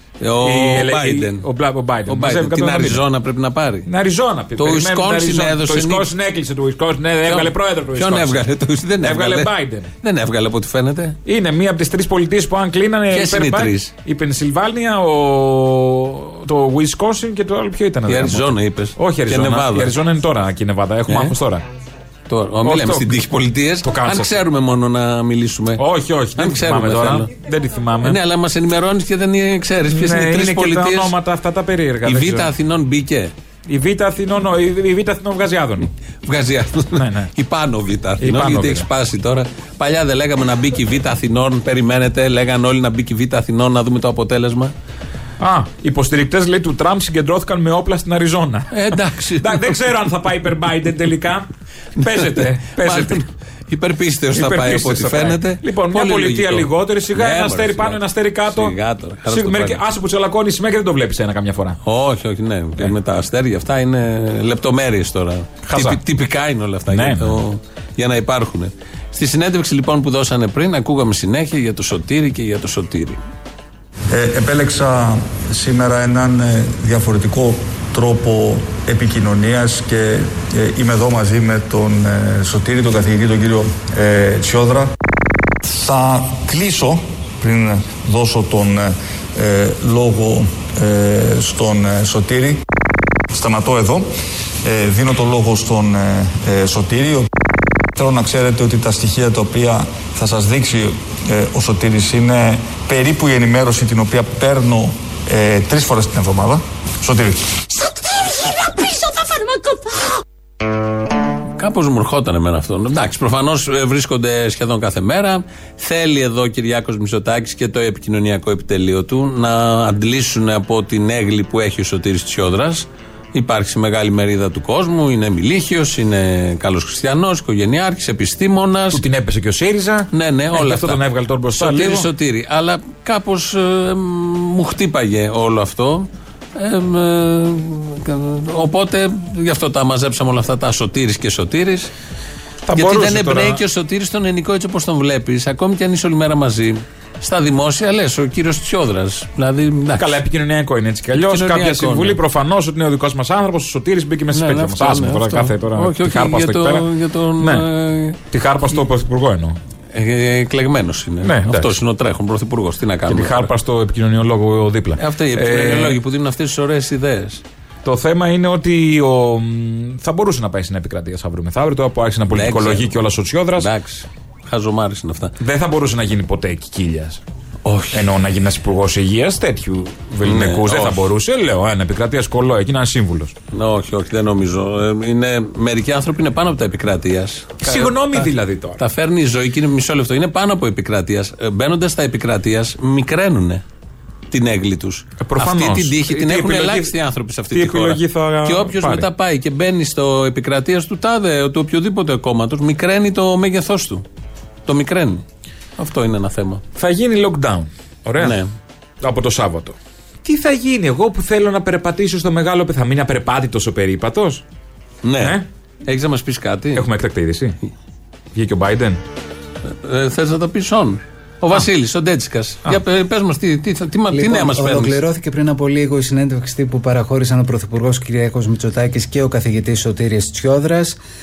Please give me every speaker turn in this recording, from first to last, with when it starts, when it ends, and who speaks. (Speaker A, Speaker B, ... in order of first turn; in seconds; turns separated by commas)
Speaker A: 0.2-1.5, Speaker B: 0.4-3.0, Speaker A: 2.1-3.9, Speaker B: 3.9-8.4, Speaker A: 4.6-6.1, Speaker A: 7.2-11.2, Speaker B: 9.0-9.9, Speaker B: 11.2-21.6, Speaker A: 13.1-13.9, Speaker A: 18.1-19.9, Speaker A: 21.1-21.4, Speaker A: 22.3-25.8, Speaker B: 22.6-23.2, Speaker B: 23.8-24.4, Speaker B: 25.8-28.2, Speaker A: 26.4-27.3, Speaker A: 28.0-31.1, Speaker B: 29.9-32.5, Speaker A: 32.0-33.3, Speaker B: 33.7-35.9, Speaker A: 36.2-44.7, Speaker B: 37.0-37.3, Speaker B: 38.2-38.9, Speaker B: 45.4-48.7, Speaker A: 48.7-49.7, Speaker B: 49.4-51.5, Speaker A: 52.0-59.8, Speaker B: 52.0-53.2, Speaker B: 54.3-58.7, Speaker B: 59.3-61.8, Speaker A: 61.8-73.2, Speaker B: 65.7-66.0, Speaker B: 66.9-67.4, Speaker C: 74.1-84.9, Speaker C: 85.6-92.6, Speaker C: 93.3-94.1, Speaker C: 94.6-97.3, Speaker C: 97.9-107.7, Speaker A: 111.6-129.0, Speaker B: 128.9-132.1, Speaker A: 130.1-131.0, Speaker A: 131.5-141.9, Speaker B: 142.6-143.6, Speaker A: 142.7-150.1, Speaker B: 150.0-156.8, Speaker A: 151.1-152.2, Speaker A: 154.3-158.2, Speaker B: 158.3-159.6, Speaker A: 159.9-163.5, Speaker B: 161.2-161.7, Speaker B: 163.1-166.0, Speaker A: 165.0-167.4, Speaker B: 167.8-173.7, Speaker A: 172.3-172.9, Speaker A: 173.6-175.3, Speaker B: 175.4-177.2, Speaker A: 177.6-178.1, Speaker B: 177.9-183.3, Speaker A: 180.2-181.1, Speaker A: 183.5-193.6, Speaker B: 187.6-188.8, Speaker A: 194.3-204.1, Speaker B: 195.2-196.9, Speaker B: 197.5-199.1, Speaker A: 204.7-205.2, Speaker A: 205.8-206.6, Speaker B: 206.8-208.4, Speaker A: 208.2-208.5, Speaker B: 209.0-214.4, Speaker A: 215.0-216.8, Speaker B: 216.8-217.6, Speaker B: 218.3-219.0, Speaker A: 219.6-225.0, Speaker D: 224.1-231.0